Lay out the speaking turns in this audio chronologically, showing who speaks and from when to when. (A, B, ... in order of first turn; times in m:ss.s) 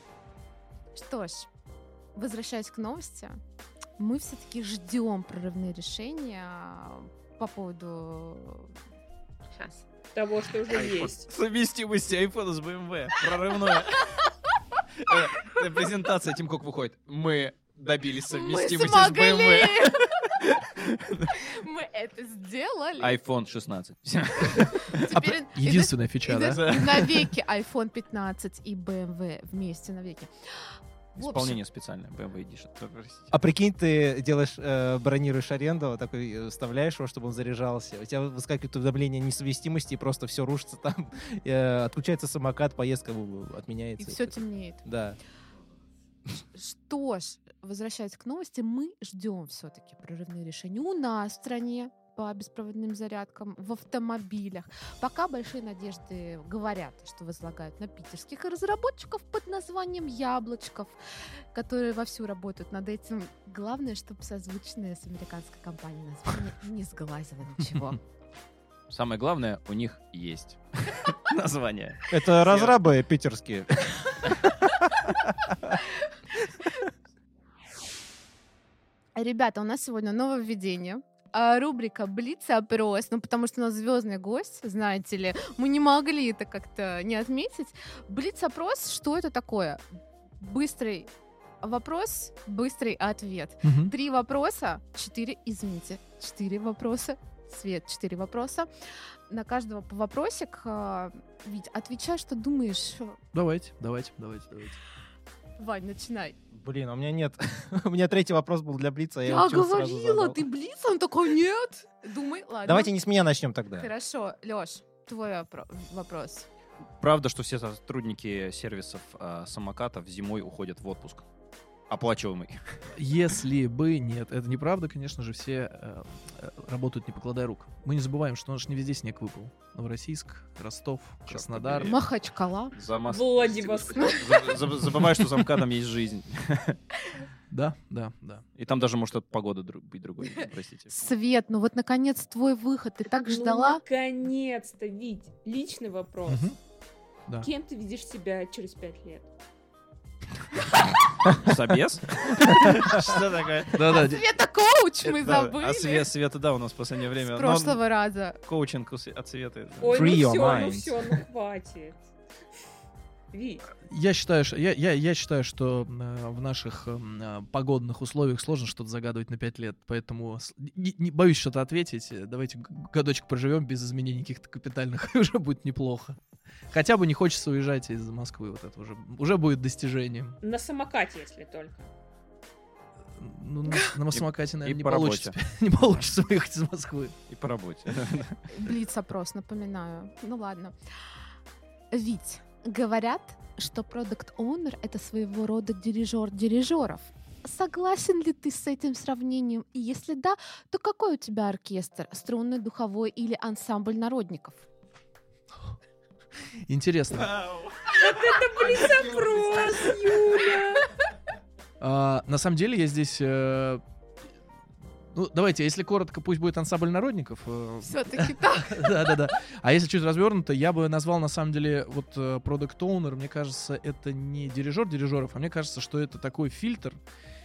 0:00.9-0:01.5 A
0:02.1-0:03.4 A
0:04.0-0:08.7 A
0:09.5-0:09.8 A
0:10.1-0:11.3 B
0:10.8-0:14.2 C
0:15.0-0:21.4 C
0:18.3-0:20.2 A
0:21.3-0:23.2 A
0:23.0-0:25.1 C
0:24.8-0:31.6 A
0:25.1-0:26.6 D
0:26.4-0:27.2 C
0:31.2-0:33.3 C
0:33.3-0:45.2 E
0:44.0-0:44.8 A
0:46.5-1:08.0 A
1:08.9-1:12.8 C
1:12.1-1:14.7 E
1:19.1-1:29.8 A
1:30.4-1:31.1 A
1:31.6-1:38.7 A
1:33.6-1:33.9 D
1:39.3-1:43.2 A
1:43.3-1:44.8 D
1:45.6-1:46.4 A
1:46.5-1:50.4 E
1:49.2-1:52.9 A
1:52.6-1:53.9 E
1:53.8-1:56.5 A
1:57.0-2:01.2 C
2:01.9-2:02.6 C
2:02.9-2:12.0 D
2:11.3-2:12.0 C
2:11.8-2:12.7 A
2:12.7-2:16.8 C
2:13.0-2:14.8 B
2:14.0-2:14.2 A
2:17.5-2:18.4 D
2:18.6-2:21.0 C
2:20.9-2:23.8 A
2:23.1-2:26.5 B
2:26.2-2:26.5 D
2:27.4-2:29.3 B
2:31.3-2:33.8 C
2:33.7-2:34.2 D
2:33.8-2:36.1 A
2:35.0-2:37.8 C
2:37.2-2:38.4 A
2:38.4-2:40.4 C
2:39.8-2:42.1 B
2:39.9-2:41.0 E
2:43.3-2:43.7 B
2:43.8-2:56.2 D
2:56.7-3:00.4 D
3:00.4-3:01.9 B
3:03.1-3:07.1 D
3:04.1-3:05.4 C
3:07.3-3:08.4 C
3:08.5-3:10.7 A
3:11.9-3:24.6 A
3:26.6-3:27.3 D
3:27.1-3:28.1 C
3:27.9-3:31.0 B
3:28.8-3:29.6 C
3:31.8-3:33.8 D
3:35.1-3:47.0 D
3:37.8-3:38.9 A